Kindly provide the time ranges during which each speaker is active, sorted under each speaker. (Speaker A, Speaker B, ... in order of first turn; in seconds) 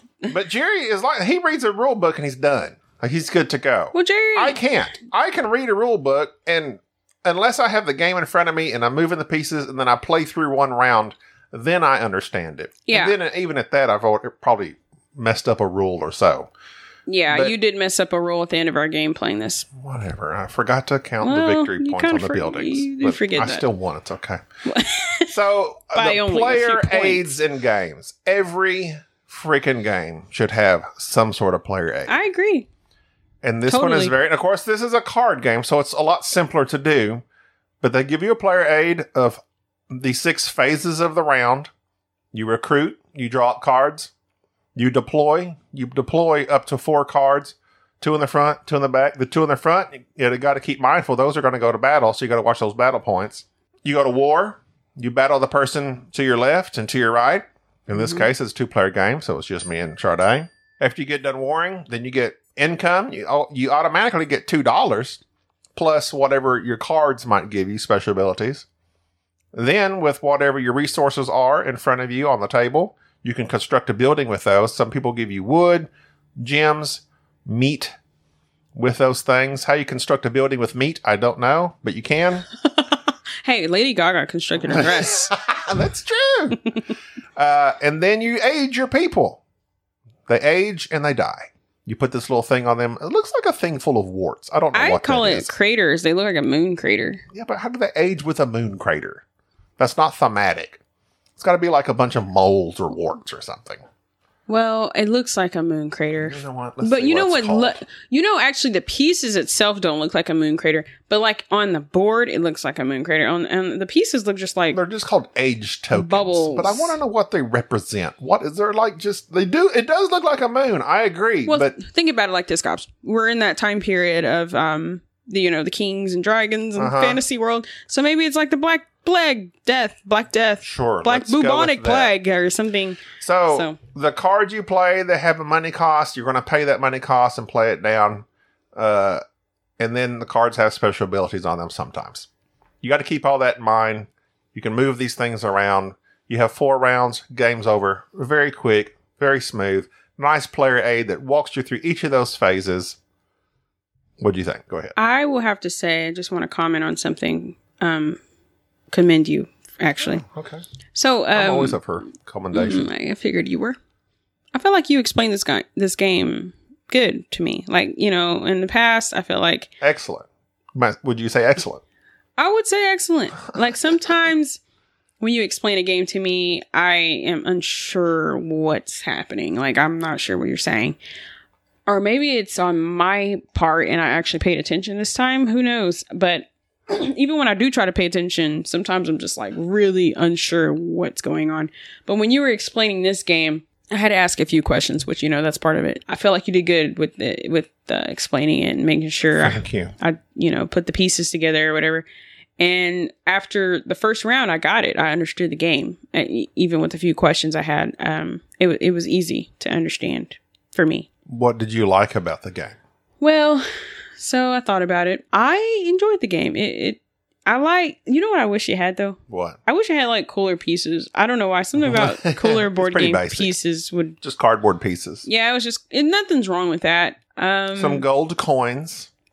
Speaker A: 0.3-16.5, 17.3-17.6, 19.8-24.4, 25.3-32.2, 33.4-37.2, 37.8-41.7, 42.3-44.1, 44.8-65.2, 65.8-68.7, 69.5-78.0, 78.8-82.5, 84.6-86.7, 87.4-89.4, 90.3-95.5, 97.3-99.2, 99.8-100.8, 101.4-103.8, 106.2-107.8, 114.7-121.8, 126.8-127.2, 130.6-132.1, 133.2-139.2, 139.8-142.3, 142.8-153.0, 154.2-154.9, 160.2-160.6, 161.3-162.9, 169.8-171.8, 199.4-199.9, 211.3-212.8, 219.3-219.6, 221.8-223.5, 224.2-225.3, 227.8-229.1
Speaker B: 3.9-4.6, 12.9-13.2, 17.1-19.7, 21.2-23.6, 24.7-25.3, 25.9-27.4, 32.1-32.7, 33.7-34.1, 58.0-58.2, 82.8-85.3, 94.7-97.2, 104.5-114.8, 115.9-117.0, 121.5-133.8, 155.0-158.2, 158.9-160.2, 160.9-161.8, 162.5-163.8, 164.5-169.7, 172.4-174.6, 175.2-181.0, 181.9-202.1, 202.6-211.1, 213.2-213.7, 214.2-224.2, 225.3-228.1